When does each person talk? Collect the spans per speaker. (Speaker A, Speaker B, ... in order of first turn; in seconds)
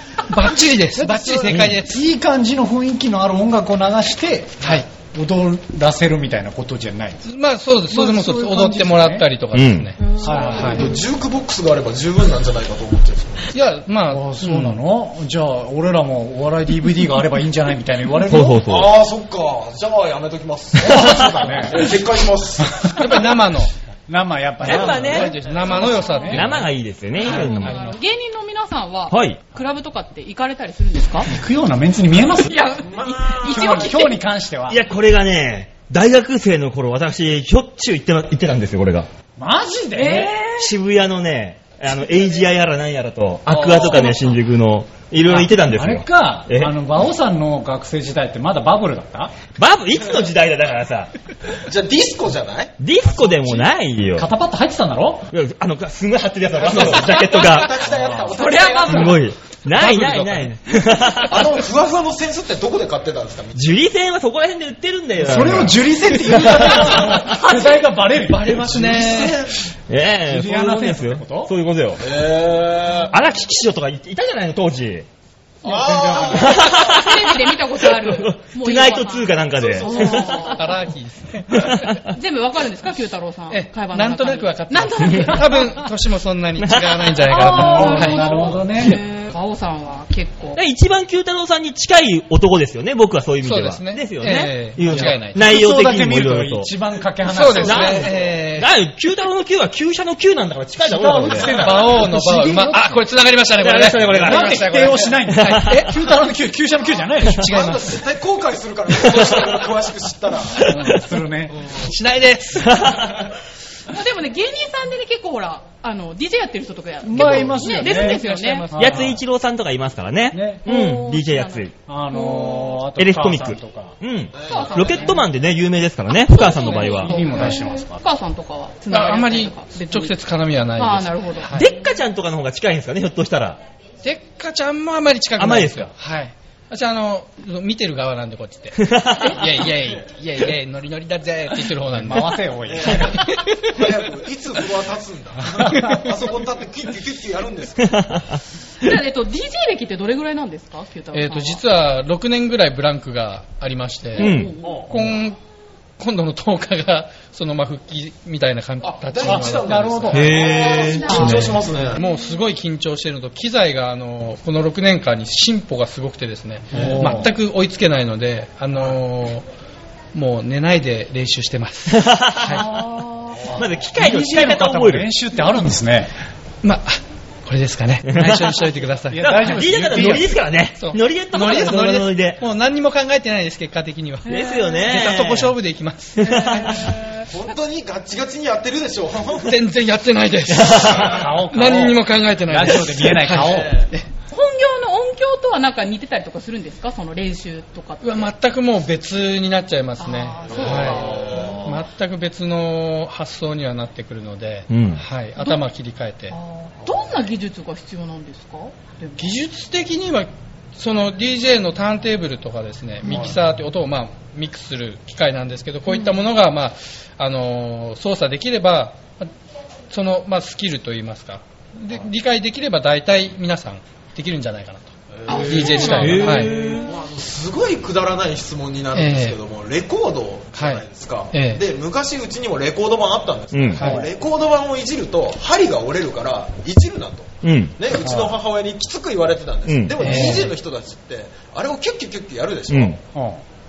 Speaker A: 0.3-2.0, 4.6-4.9, 7.3-10.9, 13.5-14.8, 22.9-23.7, 24.8-26.6, 27.4-27.9, 59.8-60.4, 67.3-67.7, 68.2-69.4, 80.2-82.0, 83.5-88.5, 93.4-95.4, 97.3-98.7, 101.5-106.0, 107.3-107.9, 111.8-113.1, 117.9-118.9, 128.9-131.7, 134.0-142.4, 143.1-143.8, 145.8-146.1, 151.1-155.4, 156.0-160.3, 161.2-169.5, 170.1-172.7, 176.6-180.2, 180.8-187.3, 189.4-194.1, 198.0-206.3, 209.2-219.3, 219.9-226.5, 228.9-229.4, 230.6-231.6, 240.0-240.5
Speaker B: 0.4-1.4, 10.2-13.6, 18.6-23.0, 25.4-25.9, 32.9-34.0, 43.5-44.3, 51.6-52.8, 56.6-59.2, 61.2-63.6, 68.7-69.6, 72.0-73.2, 75.6-76.9, 79.8-80.2, 97.8-98.3, 107.5-110.7, 111.5-111.8, 124.3-125.2, 142.7-148.1, 154.6-155.0, 158.8-162.0, 166.7-167.1, 187.3-189.6, 191.0-191.2, 193.4-193.9, 200.5-201.8, 225.1-243.0
Speaker C: 1.0-7.3, 7.9-9.3, 10.2-10.9, 14.1-18.7, 20.8-22.0, 22.6-23.0, 24.1-26.6, 31.2-32.6, 33.4-34.8, 39.4-40.4, 45.3-49.3, 53.2-55.3, 57.9-58.6, 65.2-69.3, 70.3-71.5, 75.7-76.6, 87.5-89.0, 94.9-98.1, 100.8-103.0, 104.2-107.8, 110.6-111.6, 117.0-119.2, 120.3-120.7, 121.9-124.0, 126.6-128.0, 141.9-143.2, 159.2-160.5, 166.7-167.3, 173.5-176.1, 179.1-180.3, 191.0-193.8, 233.8-234.1, 238.0-238.4, 243.1-243.4
Speaker D: 9.5-9.9, 18.2-18.9, 24.6-25.4, 26.3-27.9, 29.1-29.4, 34.7-39.1, 40.6-46.8, 49.6-51.1, 52.8-54.3, 55.3-57.8, 58.9-61.6, 63.5-67.3, 69.9-72.0, 73.1-75.1, 76.3-80.5, 81.5-82.0, 86.6-87.2, 90.6-96.7, 97.5-101.9, 103.6-104.8, 105.3-105.8, 108.9-109.6, 110.5-111.0, 112.6-113.2, 118.7-121.7, 123.0-127.1, 131.5-133.6, 135.4-135.9, 138.8-139.3, 148.0-148.4, 154.2-154.5, 160.1-161.6, 171.9-172.7, 173.6-175.1, 178.1-178.6, 179.2-182.4, 184.3-185.5, 186.2-186.9, 190.5-191.2, 204.7-205.0, 225.9-226.9, 233.5-233.9, 237.4-237.8, 239.7-240.4, 242.7-243.0
Speaker E: 25.6-26.4, 27.2-31.3, 32.4-34.2, 40.0-40.6, 58.3-59.2, 67.5-67.8, 76.3-80.7, 82.0-85.8, 87.3-90.6, 113.9-118.7, 120.7-122.8, 124.4-125.2, 126.3-130.2, 130.8-131.6, 148.8-151.6, 154.2-154.8, 160.4-161.6, 172.7-173.4, 184.3-184.9, 194.3-198.3, 200.0-201.8, 206.3-209.4, 225.3-226.5